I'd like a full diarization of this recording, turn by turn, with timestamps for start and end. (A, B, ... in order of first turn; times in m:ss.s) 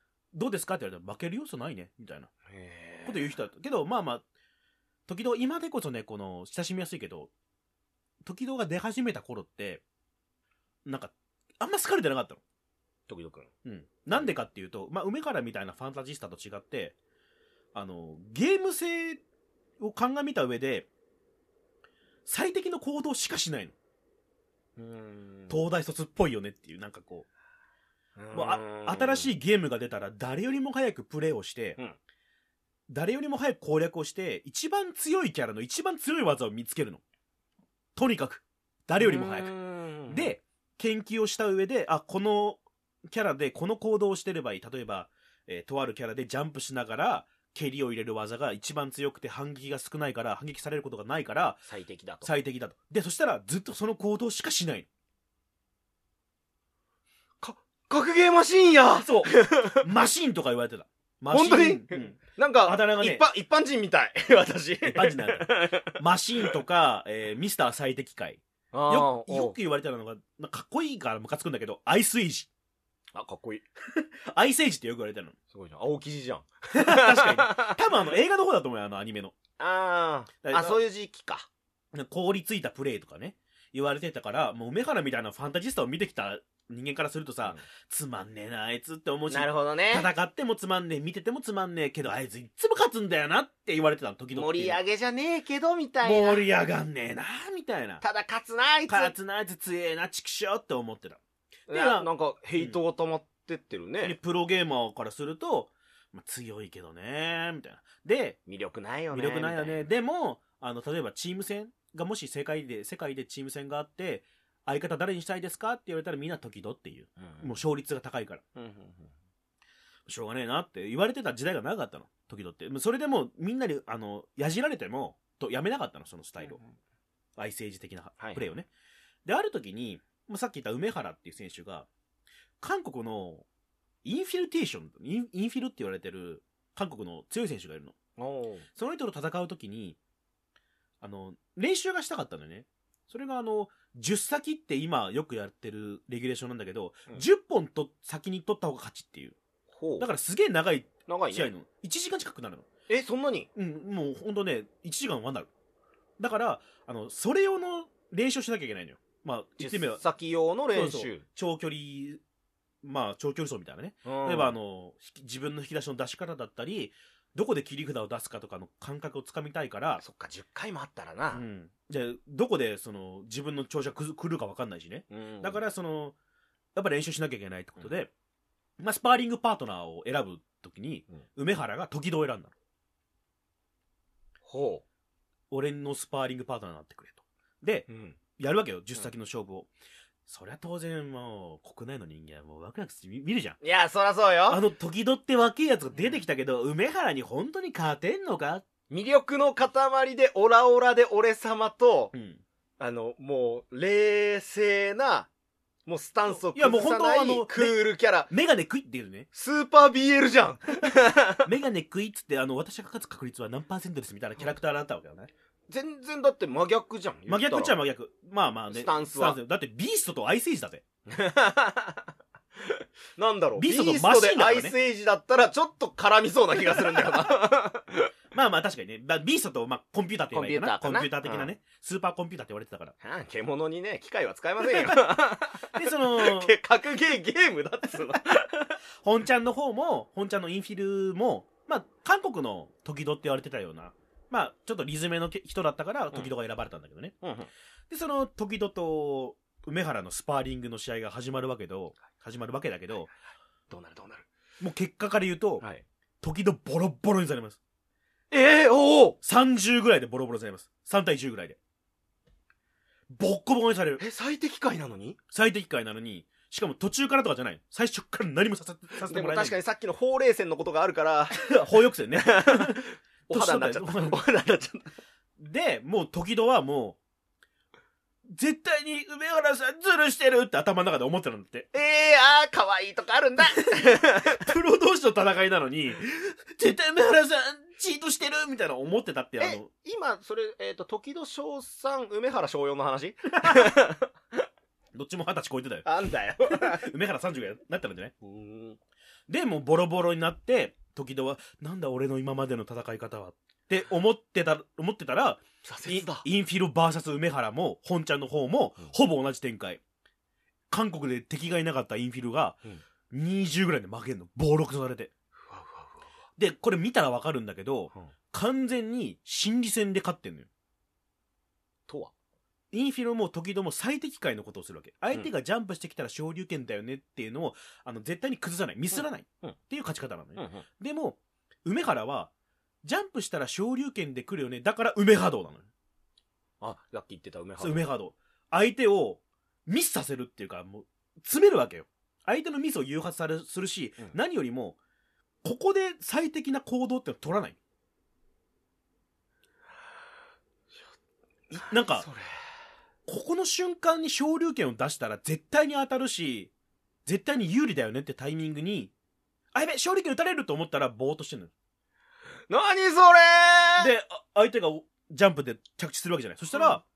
0:00.3-0:02.3 A
0:02.5-0:03.4 B
0:03.1-0:04.2 A
0:05.1-0:07.3 A
0:08.2-0:09.8 A
0:10.8-0:12.4 A
0:13.1-0:13.5 B
0:13.6-0:16.9 A
0:17.7-0:19.2 A
0:19.8-0:20.9 A
0:22.2-0:23.7 A
0:24.8-0:25.6 B
0:25.5-0:27.3 A
0:28.2-0:29.3 B
0:28.3-0:31.8 A
0:32.9-0:37.0 A
0:38.0-0:39.5 A
0:39.0-0:40.4 B
0:40.1-0:51.6 A
0:51.7-0:52.3 B
0:52.2-0:54.9 A
0:57.4-0:59.8 B
0:58.9-1:03.2 A
1:01.3-1:06.5 B
1:04.8-1:12.5 A
1:08.7-1:09.6 B
1:13.1-1:13.6 B
1:13.9-1:15.4 A
1:15.5-1:17.8 B
1:16.7-1:19.4 A
1:19.6-1:21.5 B
1:20.4-1:20.8 A
1:21.9-1:34.8 A
1:29.3-1:30.1 B
1:34.3-1:36.4 B
1:36.0-1:38.0 A
1:38.0-1:39.1 B
1:38.9-1:42.8 A
1:41.7-1:44.2 B
1:44.0-1:48.4 A
1:48.5-1:49.8 B
1:49.1-1:58.4 A
1:57.2-1:57.5 B
1:58.6-1:59.1 B
2:00.1-2:06.6 A
2:06.4-2:06.8 B
2:07.4-2:08.7 A
2:08.2-2:08.4 B
2:09.2-2:11.9 A
2:12.6-2:13.5 A
2:14.0-2:17.9 A
2:18.2-2:18.7 B
2:18.8-2:20.0 A
2:21.0-2:29.4 A
2:29.7-2:30.1 B
2:30.0-2:32.6 A
2:31.1-2:31.5 B
2:32.9-2:33.5 B
2:33.6-2:35.5 A
2:36.2-2:40.0 A
2:39.6-2:41.2 B
2:40.7-2:42.2 A
2:42.8-2:50.0 A
2:44.0-2:44.6 B
2:50.0-2:51.4 B
2:51.3-2:56.2 A
2:55.1-2:55.6 B
2:56.8-2:58.1 A
2:58.8-3:02.5 A
3:04.4-3:04.8 B
3:05.5-3:09.7 A
3:07.9-3:08.2 B
3:10.3-3:13.6 A
3:13.6-3:14.6 B
3:14.5-3:18.6 A
3:18.9-3:22.1 B
3:22.1-3:22.4 A
3:22.8-3:25.3 B
3:25.9-3:28.3 B
3:26.3-3:29.3 A
3:29.3-3:31.5 B
3:31.4-3:35.3 A
3:35.7-3:37.8 B
3:37.3-3:40.8 A
3:38.7-3:39.4 B
3:41.1-3:48.1 B
3:43.6-3:44.8 A
3:48.3-3:52.9 A
3:50.3-3:51.5 B
3:53.0-3:58.8 B
3:54.6-3:55.2 A
3:55.7-3:56.5 A
3:59.0-4:07.1 A
4:07.2-4:07.5 B
4:07.9-4:13.1 A
4:13.7-4:14.3 B
4:14.6-4:15.6 A
4:16.2-4:17.6 A
4:18.3-4:19.2 B
4:19.2-4:21.6 A
4:23.1-4:24.0 A
4:24.0-4:25.2 B
4:25.3-4:29.6 A
4:29.0-4:31.5 B
4:31.3-4:34.2 A
4:32.1-4:34.9 B
4:35.4-4:37.0 A
4:38.2-4:41.7 A
4:41.7-4:44.5 B
4:44.3-4:49.7 A
4:49.4-4:54.1 B
4:53.4-4:53.7 A
4:54.9-4:55.9 A
4:55.8-4:56.9 B
4:56.4-4:58.1 A
4:58.2-4:58.8 B
4:59.3-5:09.8 A
5:05.6-5:06.2 B
5:10.7-5:12.6 A
5:13.1-5:15.1 A
5:15.4-5:16.1 B
5:16.4-5:20.5 A
5:21.9-5:22.1 B
5:22.7-5:32.3 A
5:28.9-5:29.6 B
5:30.4-5:30.6 B
5:32.8-5:35.6 A
5:36.6-5:37.8 B
5:37.6-5:44.8 A
5:45.4-5:47.6 A
5:51.5-5:52.1 A
5:51.5-5:52.2 B
5:53.1-5:56.5 A
5:57.1-5:58.9 A
5:59.5-6:01.5 A
6:02.5-6:03.9 B
6:03.8-6:06.8 A
6:06.5-6:06.8 B